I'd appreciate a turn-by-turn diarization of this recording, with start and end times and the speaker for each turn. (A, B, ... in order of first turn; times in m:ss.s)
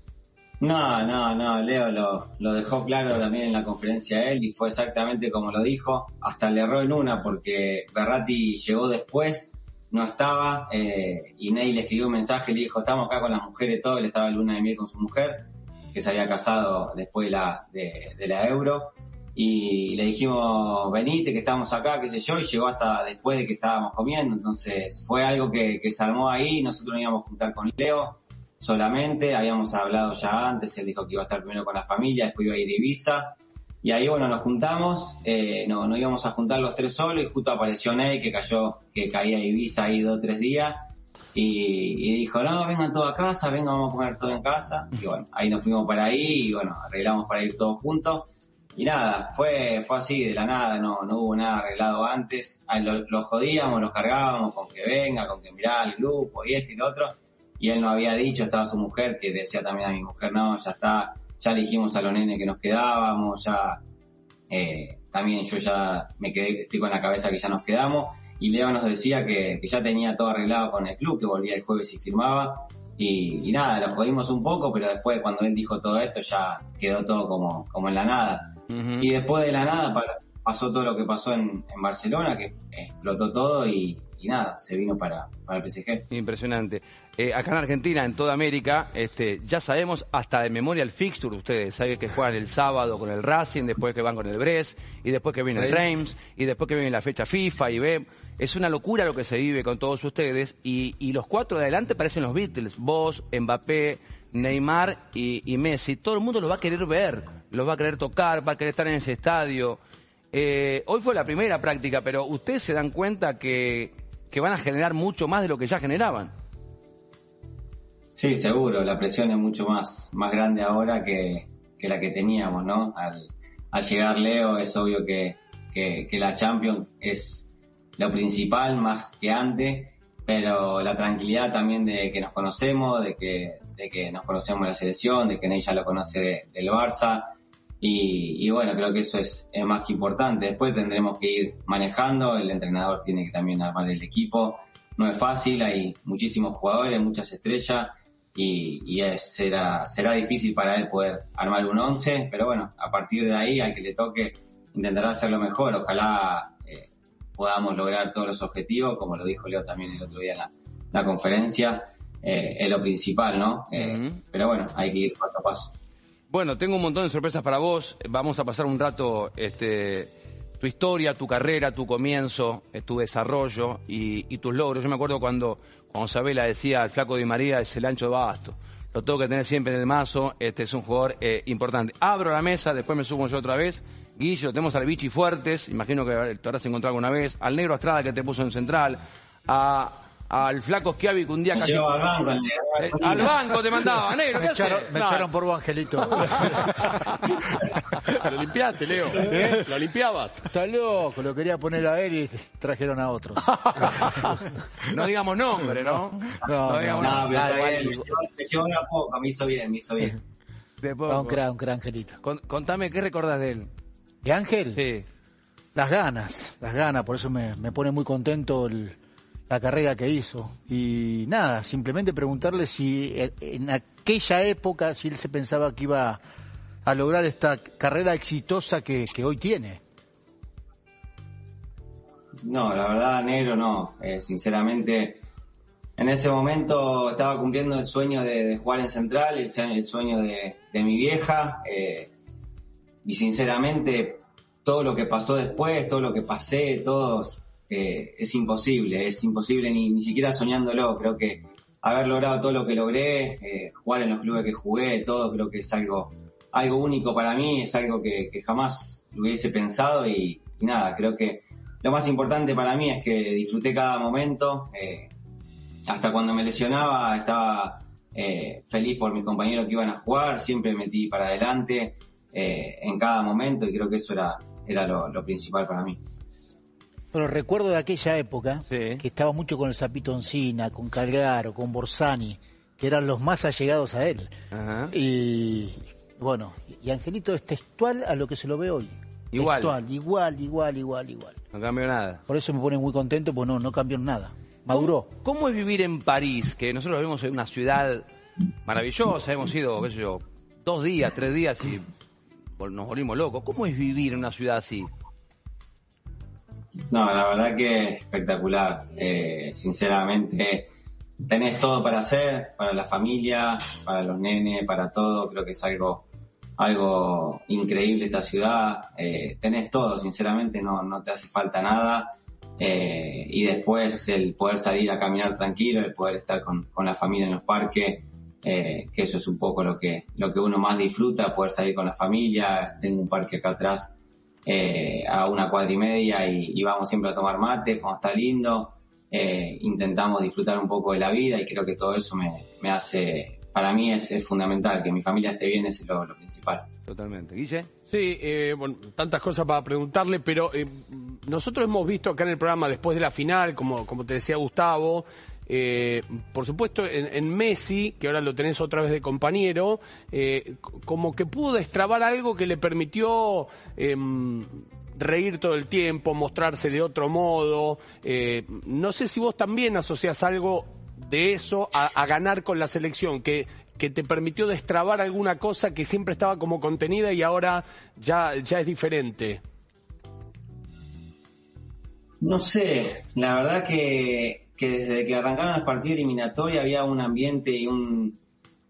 0:00.6-1:03.8 A
1:04.5-1:26.1 A
1:18.7-1:19.1 B
1:26.1-1:49.8 B
1:35.6-1:35.9 C
1:50.3-1:56.3 B
1:58.1-2:45.7 A
2:43.8-2:44.2 B
2:46.3-3:11.9 B
3:11.6-3:13.4 A
3:12.8-3:14.9 B
3:14.4-3:16.9 C
3:15.0-3:15.3 D
3:18.1-3:20.4 D
3:19.2-3:19.6 C
3:20.5-3:24.4 C
3:23.8-3:24.3 B
3:24.9-3:28.1 B
3:26.4-3:27.4 C
3:27.0-3:30.2 A
3:30.8-3:31.4 B
3:31.1-3:32.2 C
3:32.2-3:33.7 B
3:34.2-3:34.8 C
3:34.7-3:35.1 B
3:35.8-3:46.2 C
3:46.8-3:49.8 C
3:52.4-3:55.2 A
3:56.0-4:02.1 A
4:03.0-4:25.1 A
4:25.9-4:36.0 A
4:37.1-4:44.3 C
4:38.7-4:39.0 B
4:44.5-4:44.9 B
4:44.9-4:51.4 C
4:49.3-4:49.8 B
4:51.5-4:52.2 B
4:52.3-4:55.1 C
4:54.7-4:58.1 B
4:58.6-5:01.9 B
5:02.6-5:04.9 B
5:06.9-5:10.7 A
5:11.2-5:16.1 A
5:16.6-5:46.7 A
5:46.9-5:47.7 B
5:47.9-6:19.4 D
6:22.2-6:28.2 A